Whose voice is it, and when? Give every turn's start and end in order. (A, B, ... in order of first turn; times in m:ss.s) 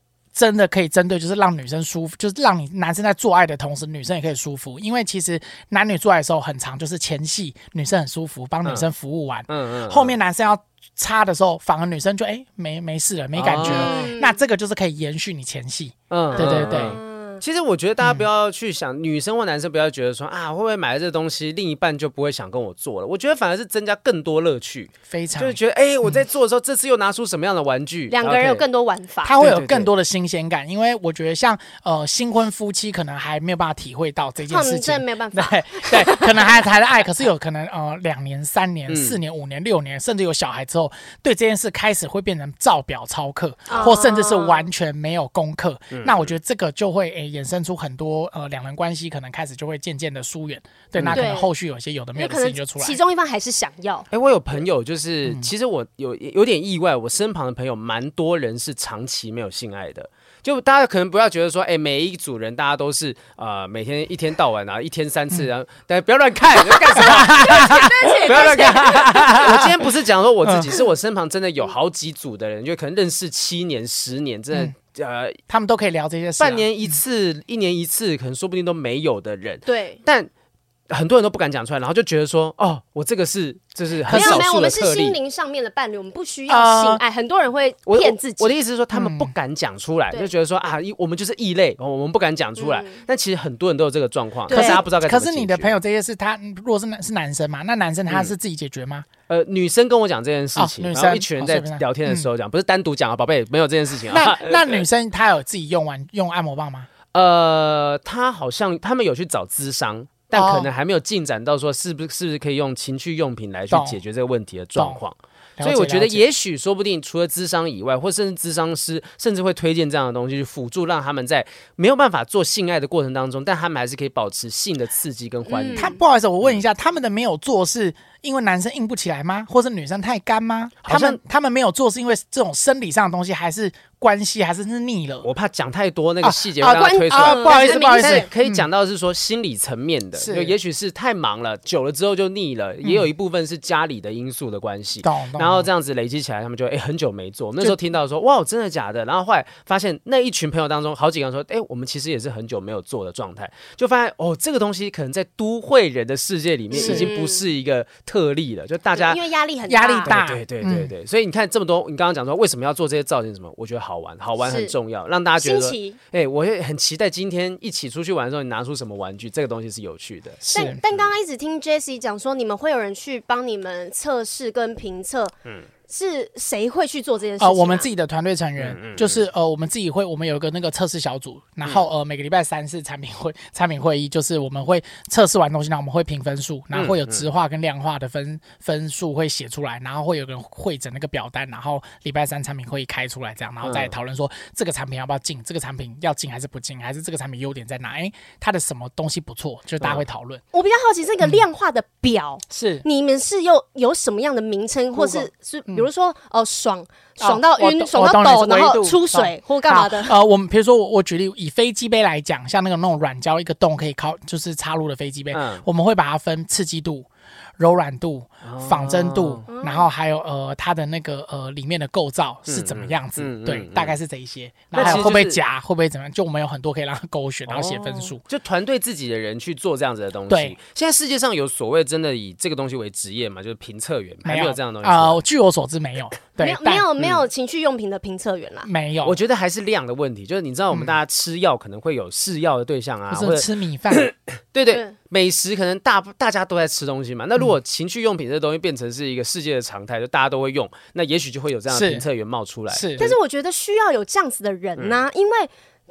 0:00.3-0:17.0 A
0:09.5-0:10.1 B
0:13.4-0:14.0 B
0:13.6-0:14.4 C
0:16.1-0:28.6 B
0:16.3-0:17.4 C
0:18.0-0:18.2 A
0:25.1-0:26.2 A
0:28.1-0:29.3 C
0:29.2-0:53.0 A
0:29.4-0:29.9 B
0:34.5-0:36.7 C
0:38.9-0:39.2 B
0:43.7-0:44.7 C
0:45.9-0:46.3 B
0:51.0-0:51.3 B
0:51.1-0:51.5 C
0:52.2-0:54.1 C
0:54.1-1:15.4 B
1:06.6-1:09.6 C
1:07.0-1:09.7 A
1:10.4-1:10.7 A
1:15.5-1:16.7 A
1:16.4-1:20.3 B
1:19.6-1:20.0 C
1:20.9-1:25.2 B
1:24.0-1:24.4 A
1:24.1-1:28.5 C
1:26.5-1:27.0 A
1:27.9-1:35.7 B
1:28.9-1:29.3 A
1:32.6-1:33.0 C
1:34.5-1:34.8 C
1:34.5-1:39.1 A
1:39.3-1:44.8 B
1:40.6-1:42.3 A
1:44.1-1:46.9 A
1:47.1-2:06.6 B
1:50.3-1:50.7 A
1:53.7-1:54.0 A
1:54.8-1:55.0 A
1:55.6-1:56.2 A
2:05.5-2:06.0 C
2:05.8-2:15.3 A
2:10.8-2:11.2 B
2:15.2-2:39.2 B
2:16.2-2:18.6 A
2:16.7-2:18.3 C
2:20.2-2:20.5 A
2:22.8-2:23.1 A
2:25.0-2:25.7 A
2:36.7-2:37.4 C
2:36.8-2:37.1 A
2:38.9-2:40.1 C
2:39.7-2:40.9 A
2:40.0-2:51.1 B
2:44.4-2:44.7 C
2:45.4-2:46.0 C
2:50.4-2:50.8 A
2:50.5-2:55.3 C
2:55.9-2:57.9 C
2:57.4-3:20.4 A
2:58.6-2:59.2 B
3:06.7-3:07.2 B
3:13.6-3:13.9 B
3:20.5-3:30.1 C
3:22.5-3:22.8 A
3:24.9-3:25.9 A
3:27.2-3:48.2 A
3:35.3-3:35.6 B
3:38.4-3:39.4 B
3:39.5-3:39.9 C
3:42.5-3:43.9 B
3:44.7-3:45.4 B
3:44.7-3:45.0 C
3:47.5-3:55.2 B
3:50.3-3:50.6 A
3:54.2-3:56.9 A
3:56.4-3:58.7 C
3:58.6-3:59.2 A
3:59.0-4:13.0 B
4:03.1-4:04.1 A
4:11.7-4:12.0 A
4:12.7-4:13.2 A
4:13.0-4:15.5 C